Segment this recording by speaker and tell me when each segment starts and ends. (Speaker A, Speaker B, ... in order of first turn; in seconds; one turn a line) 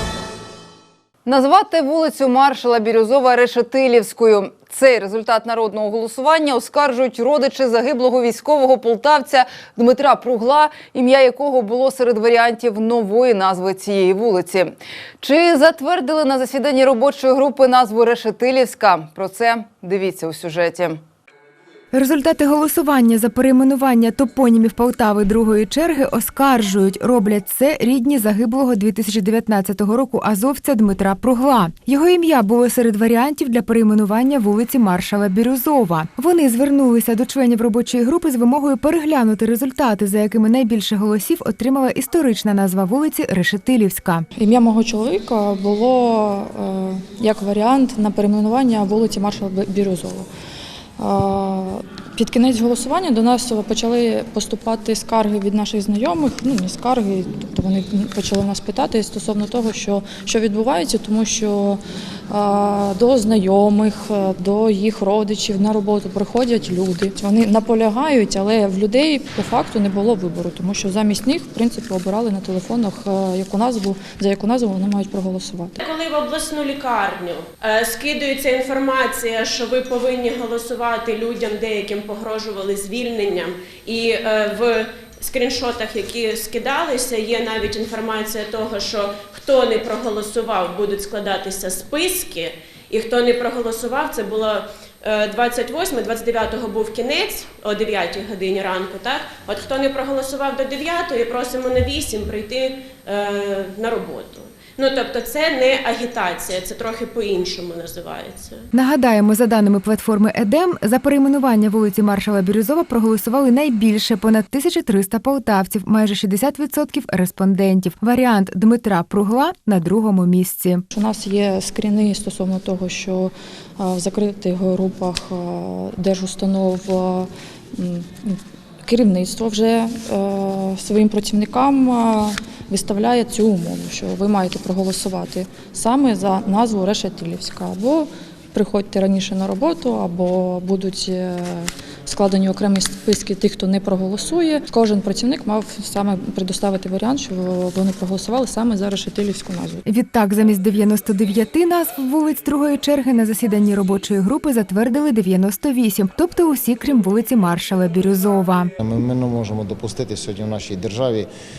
Speaker A: 1.2-21.0
Speaker B: 21.9-44.3
Speaker C: 44.4-50.3
Speaker C: 51.0-75.8
Speaker D: 75.8-108.7
Speaker B: 108.7-120.8
Speaker C: 120.9-149.8
Speaker B: 149.8-158.7
Speaker E: 158.8-161.3